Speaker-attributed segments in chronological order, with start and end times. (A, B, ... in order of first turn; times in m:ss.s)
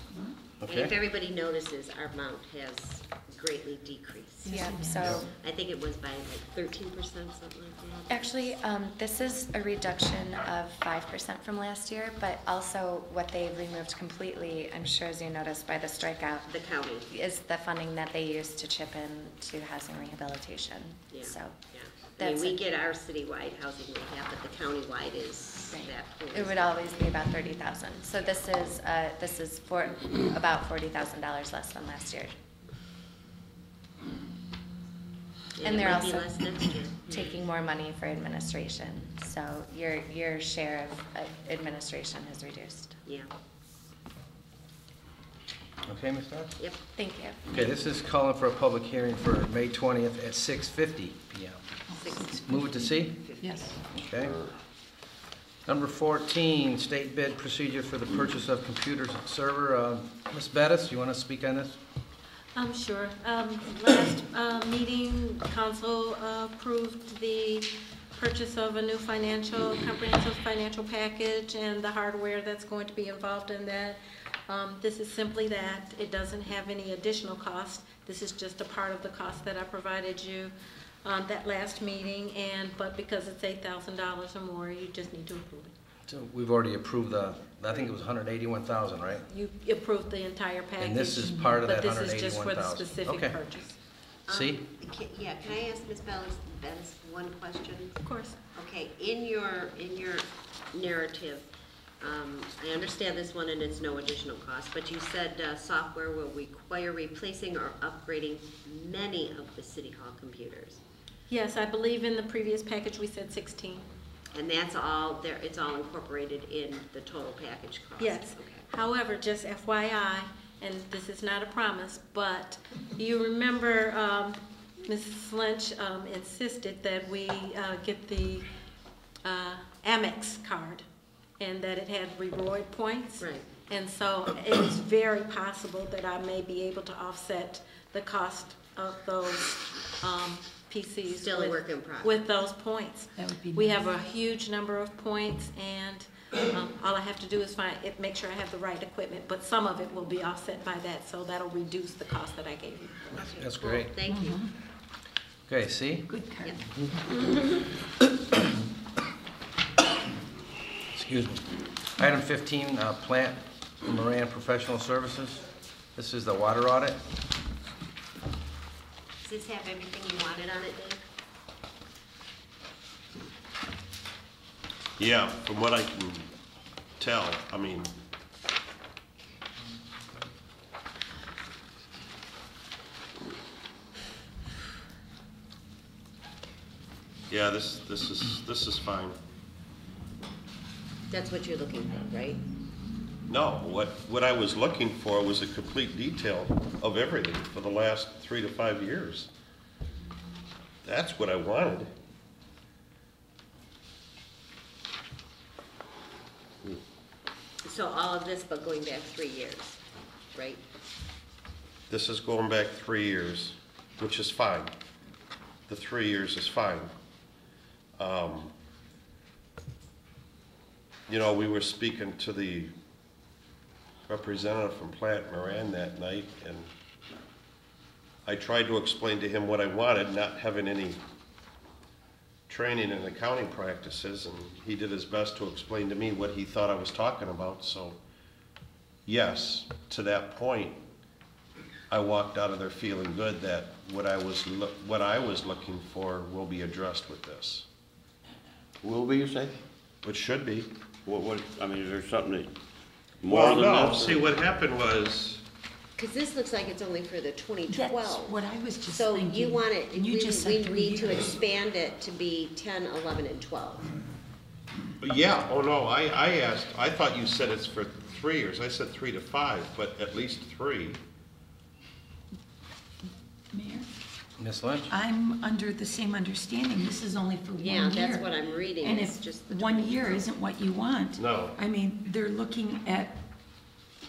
0:00.6-0:00.9 A
0:00.6-0:08.6 B
0:04.4-0:05.3 C
0:04.5-0:05.0 D
0:08.1-0:16.5 C
0:16.4-0:17.1 B
0:17.1-0:21.6 C
0:21.1-0:26.8 B
0:22.2-0:22.6 C
0:25.7-0:32.3 C
0:35.6-0:37.3 B
0:35.6-0:36.3 C
0:37.1-0:43.0 C
0:45.9-0:46.5 A
0:47.0-0:47.7 C
0:47.5-0:51.6 A
0:51.9-0:52.8 D
0:52.0-0:52.4 B
0:52.4-0:53.2 A
0:53.2-0:53.6 B
0:53.4-0:53.7 D
0:53.9-0:54.3 A
0:55.6-1:01.8 A
1:02.5-1:25.7 E
1:26.1-1:29.2 A
1:29.3-1:33.8 E
1:30.8-1:33.3 A
1:34.3-1:38.0 B
1:34.3-1:34.6 A
1:38.0-1:38.4 E
1:38.5-1:41.4 B
1:42.0-1:50.8 B
1:51.3-1:53.9 E
1:54.3-1:58.7 B
1:58.0-2:08.5 E
2:09.2-2:10.8 E
2:11.4-2:33.2 E
2:13.2-2:13.5 B
2:21.0-2:22.2 B
2:23.2-2:23.8 D
2:33.2-2:34.4 B
2:33.4-2:34.0 A
2:34.1-2:34.4 D
2:35.5-2:36.1 A
2:36.1-2:36.4 D
2:40.9-2:41.4 A
2:42.0-2:45.4 A
2:46.0-2:47.0 A
2:49.2-2:51.0 B
2:55.0-2:56.3 F
2:57.0-2:57.9 F
3:07.3-3:09.2 F
3:11.1-3:12.4 B
3:13.3-3:19.3 F
3:20.8-3:21.9 F
3:27.6-3:29.8 B
3:30.3-3:30.6 B
3:31.9-3:34.7 F
3:35.7-3:36.9 F
3:38.0-3:38.5 F
3:41.1-3:42.7 F
3:44.1-3:46.7 F
3:48.2-3:51.0 F
3:52.5-3:58.0 F
3:59.0-4:00.8 F
4:01.9-4:07.6 F
4:08.8-4:09.6 G
4:10.0-4:10.7 F
4:11.0-4:12.5 G
4:13.2-4:14.3 G
4:13.3-4:15.4 F
4:16.0-4:23.9 B
4:17.7-4:21.2 D
4:25.0-4:31.0 F
4:33.5-4:33.9 D
4:34.4-4:34.9 A
4:34.9-4:38.2 D
4:37.5-4:40.3 B
4:38.8-4:43.2 D
4:41.2-4:41.6 F